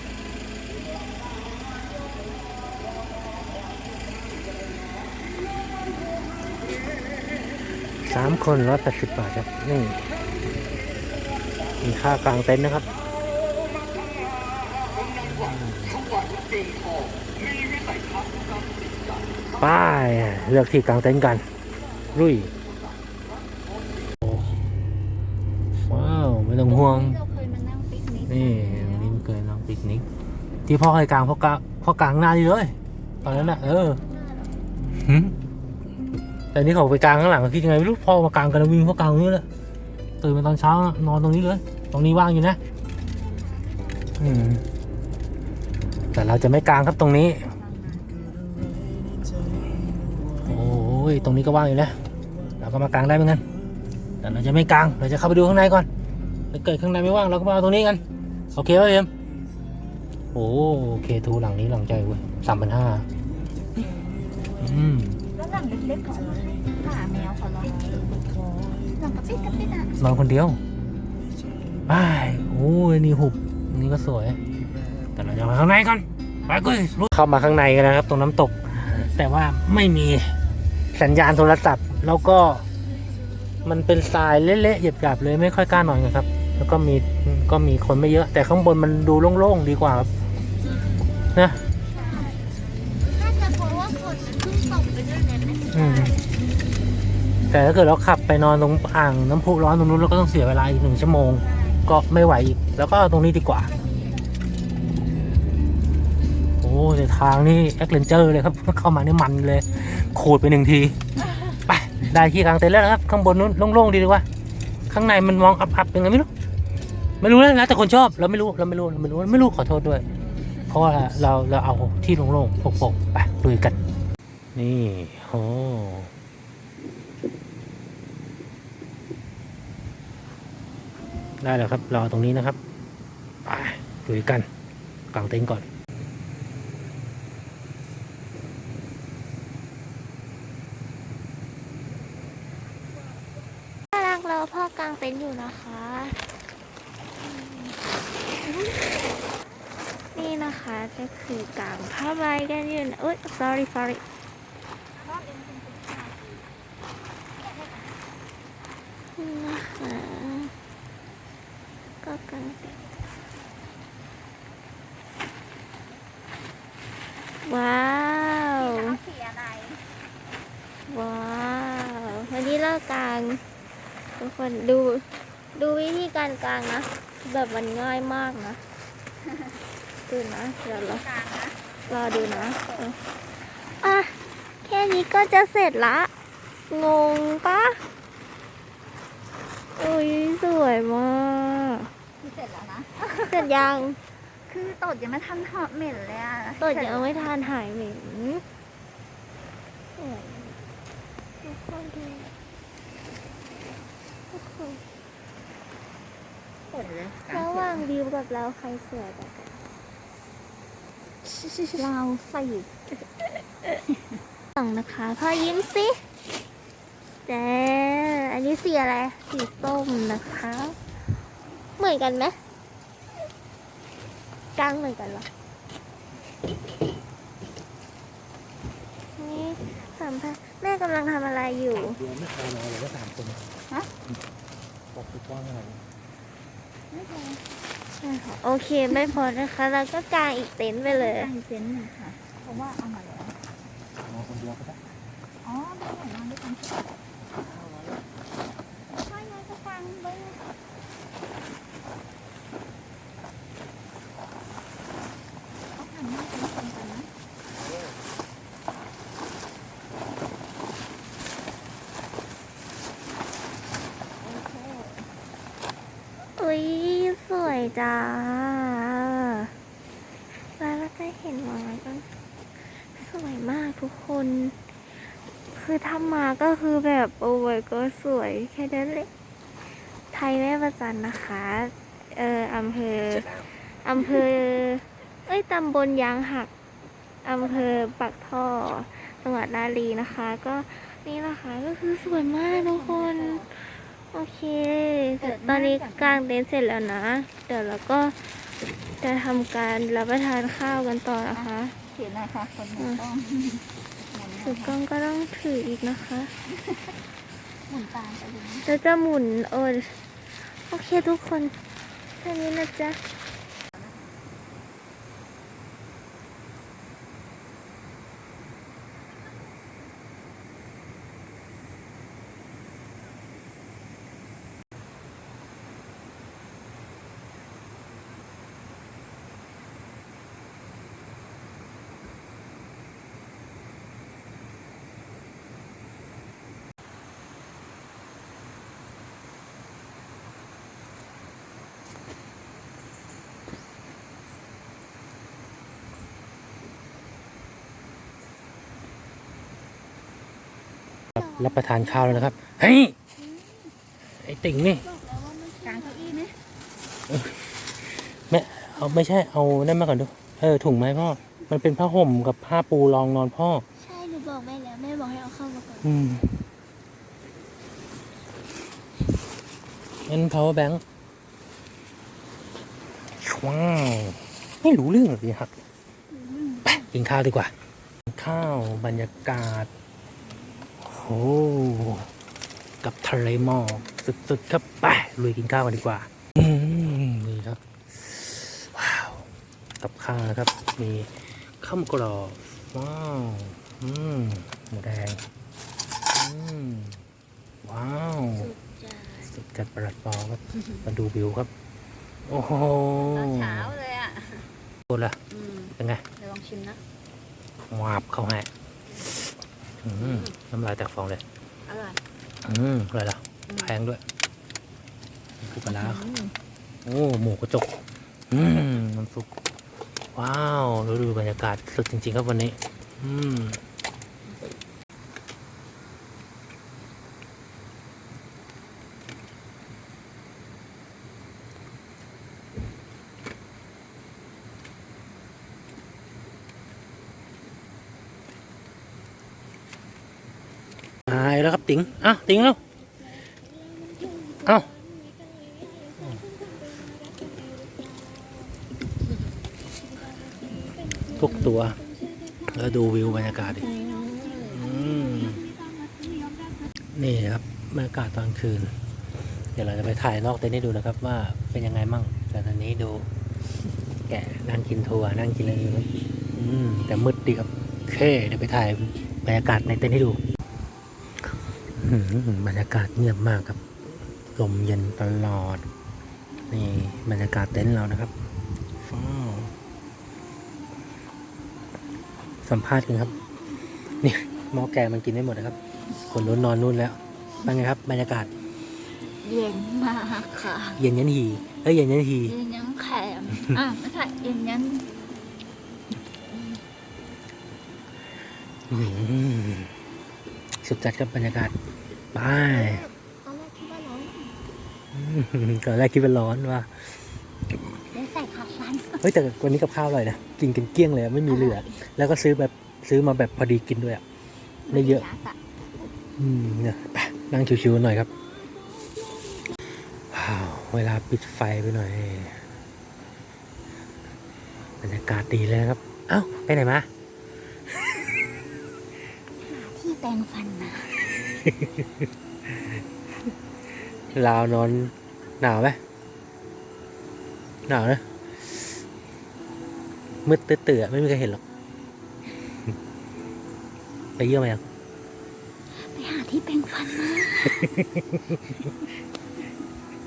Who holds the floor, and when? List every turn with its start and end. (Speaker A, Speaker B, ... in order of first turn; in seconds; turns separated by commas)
Speaker A: 8.0-10.1, Speaker A: 11.8-12.9, Speaker A: 15.2-16.1, Speaker A: 19.6-21.4, Speaker A: 22.1-22.5, Speaker A: 24.2-24.5, Speaker A: 25.9-27.2, Speaker B: 26.6-29.2, Speaker A: 28.3-30.1, Speaker A: 30.7-34.0, Speaker C: 33.2-34.5, Speaker A: 34.9-35.3, Speaker A: 36.5-39.4, Speaker A: 40.2-42.6, Speaker B: 43.1-44.0, Speaker A: 44.2-44.6, Speaker A: 46.1-47.4, Speaker B: 47.4-48.2, Speaker A: 50.4-52.0, Speaker A: 52.6-53.4, Speaker A: 54.2-55.9, Speaker A: 56.5-58.0, Speaker A: 58.5-59.1, Speaker A: 60.3-63.1, Speaker A: 64.6-65.2, Speaker B: 65.3-68.3, Speaker B: 69.0-70.0, Speaker A: 70.0-70.6, Speaker A: 71.9-74.4, Speaker A: 75.1-80.3, Speaker A: 80.9-82.7, Speaker A: 83.7-90.1, Speaker A: 91.3-91.6, Speaker C: 91.9-92.4, Speaker B: 91.9-92.3, Speaker C: 93.1-96.2, Speaker A: 95.7-96.2, Speaker A: 97.5-103.7, Speaker B: 101.4-101.8, Speaker B: 103.7-104.2, Speaker A: 106.6-111.0, Speaker A: 111.7-114.2, Speaker A: 114.9-116.3, Speaker A: 117.2-120.0, Speaker A: 120.7-123.8, Speaker A: 124.5-126.1, Speaker A: 131.4-132.6, Speaker A: 133.5-134.5, Speaker A: 135.1-135.7, Speaker C: 143.9-146.2, Speaker B: 147.2-147.8, Speaker B: 148.5-148.9, Speaker C: 150.1-154.0, Speaker B: 154.9-156.4, Speaker B: 157.4-157.9, Speaker C: 159.2-160.5, Speaker C: 162.0-162.8, Speaker C: 167.4-169.0, Speaker B: 168.6-169.8, Speaker C: 170.9-173.4, Speaker C: 174.2-178.6, Speaker B: 179.3-179.6, Speaker C: 180.1-181.0, Speaker B: 180.6-182.9, Speaker C: 181.9-186.1, Speaker C: 186.7-187.8, Speaker C: 189.8-191.9, Speaker B: 192.2-193.5, Speaker C: 193.1-194.0, Speaker B: 194.5-197.3, Speaker C: 196.6-198.4, Speaker C: 199.9-200.6, Speaker C: 201.4-202.3, Speaker C: 204.3-204.8, Speaker B: 206.7-207.9, Speaker C: 207.3-209.6, Speaker C: 211.3-211.9, Speaker B: 211.8-212.7, Speaker C: 213.2-213.8, Speaker C: 214.6-216.1, Speaker C: 217.2-221.1, Speaker C: 221.8-222.4, Speaker C: 224.6-225.3, Speaker C: 229.2-232.0, Speaker A: 231.8-233.5, Speaker A: 234.9-235.8, Speaker B: 236.9-237.4, Speaker C: 238.0-241.3, Speaker B: 238.9-239.2, Speaker B: 240.8-243.3, Speaker A: 244.0-244.8, Speaker B: 245.4-246.9, Speaker B: 248.9-250.4, Speaker B: 255.8-257.1, Speaker B: 264.2-265.1, Speaker C: 266.2-269.5, Speaker C: 270.3-272.0, Speaker C: 272.6-279.1, Speaker C: 279.6-286.5, Speaker A: 283.1-283.4, Speaker C: 287.2-301.8, Speaker B: 292.0-293.5, Speaker B: 295.2-296.2, Speaker B: 301.3-304.8, Speaker C: 304.4-306.3, Speaker B: 306.5-307.0, Speaker B: 307.7-308.7, Speaker C: 308.6-311.6, Speaker C: 312.1-313.0, Speaker C: 351.2-352.3, Speaker A: 351.2-352.9, Speaker B: 353.2-353.6, Speaker A: 354.2-354.9, Speaker C: 354.6-356.2, Speaker B: 355.6-356.4, Speaker A: 357.1-357.4, Speaker A: 357.9-363.6, Speaker C: 363.8-365.9, Speaker A: 365.8-366.4, Speaker A: 370.1-370.8, Speaker A: 373.2-375.5, Speaker B: 376.1-376.9, Speaker A: 376.7-377.5, Speaker A: 378.1-379.7, Speaker B: 380.2-380.7, Speaker A: 380.8-382.1, Speaker A: 382.8-389.2, Speaker A: 389.8-395.2, Speaker A: 396.1-397.0, Speaker A: 397.6-398.5, Speaker B: 398.7-399.2, Speaker A: 399.2-401.5, Speaker A: 402.3-403.8, Speaker B: 403.1-404.5, Speaker A: 404.9-405.2, Speaker B: 405.3-406.8, Speaker A: 405.8-406.0, Speaker A: 407.7-408.5, Speaker A: 409.8-411.2, Speaker B: 410.0-410.4, Speaker B: 411.7-412.0, Speaker A: 412.4-414.0, Speaker B: 413.5-413.7, Speaker A: 415.4-416.1, Speaker B: 415.7-416.3, Speaker A: 416.9-417.8, Speaker A: 418.3-419.3, Speaker A: 420.1-423.6, Speaker A: 441.1-442.6, Speaker A: 444.4-444.7, Speaker A: 451.1-451.8, Speaker A: 452.5-453.8, Speaker B: 453.9-454.1, Speaker A: 454.3-455.5, Speaker A: 456.9-458.7, Speaker A: 459.5-463.1, Speaker A: 464.1-470.2, Speaker A: 471.8-473.6, Speaker A: 474.3-475.6, Speaker A: 476.5-478.1, Speaker A: 478.8-479.5, Speaker A: 482.4-483.1, Speaker A: 484.0-485.6, Speaker A: 486.1-488.3, Speaker B: 489.2-490.8, Speaker A: 490.8-492.4, Speaker B: 492.2-494.9, Speaker B: 496.3-496.6, Speaker A: 498.7-499.7, Speaker A: 500.6-501.5, Speaker A: 502.1-502.9, Speaker B: 502.4-504.4, Speaker A: 504.9-507.2, Speaker B: 507.9-509.1, Speaker A: 509.0-514.0, Speaker B: 511.3-511.8, Speaker B: 514.6-515.4, Speaker A: 514.7-515.0, Speaker A: 516.2-518.1, Speaker A: 520.1-522.4, Speaker A: 524.8-526.9, Speaker B: 529.4-530.9, Speaker A: 531.4-531.9, Speaker A: 534.1-535.8, Speaker A: 537.7-538.6, Speaker A: 540.2-541.4, Speaker A: 544.2-544.6, Speaker B: 545.8-547.7, Speaker A: 547.5-548.4